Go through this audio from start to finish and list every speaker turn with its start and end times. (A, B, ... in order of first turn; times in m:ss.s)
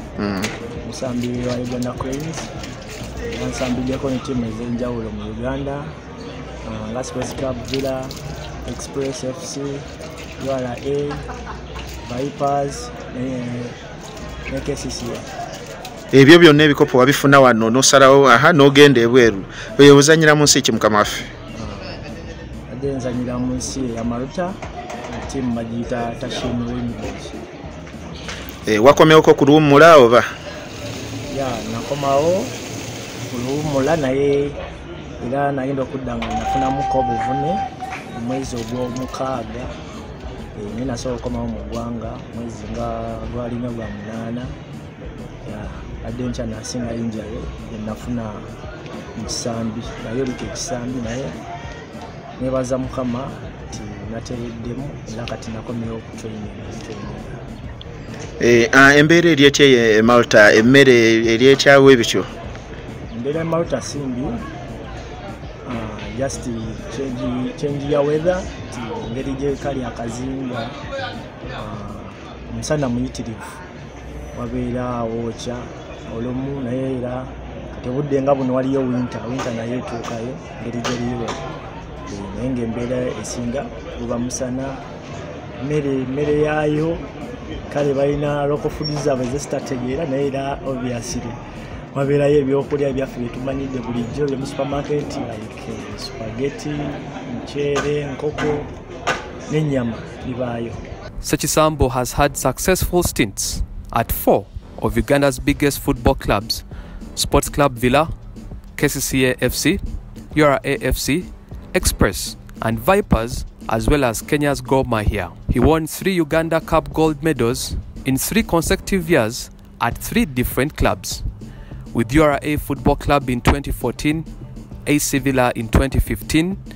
0:00.2-0:00.5 A
0:00.8-0:02.5 B
0:03.2-0:05.9 B
0:06.6-0:09.9 B
0:10.4-0:11.2 B
0:12.0-0:13.8 B
0:14.5-0:15.2 B
0:16.1-0:21.2 A
0:21.5-0:22.0 B
0:22.7-0:24.6 B
0:25.1-0:27.4 B
0:28.7-0:30.2 A
0:31.3-0:32.5 B
0:33.3-0:34.6 B
0:35.2-0:39.7 B
0:40.5-0:44.5 B
0:45.4-0:48.5 B
0:49.1-0:51.4 B
0:52.4-0:57.4 B
0:58.4-1:02.3 A
1:03.1-1:04.5 B
1:05.6-1:10.8 B
1:11.6-1:13.6 B
1:14.3-1:21.4 B
1:22.1-1:24.8 B
1:25.6-1:27.0 B
1:27.7-1:31.4 B
1:31.9-1:38.7 B
1:39.5-1:40.8 B
1:41.2-1:46.6 C
1:47.2-1:48.1 C
1:48.8-1:49.8 C
1:50.3-2:01.2 C
2:01.9-2:04.3 C
2:04.8-2:06.6 C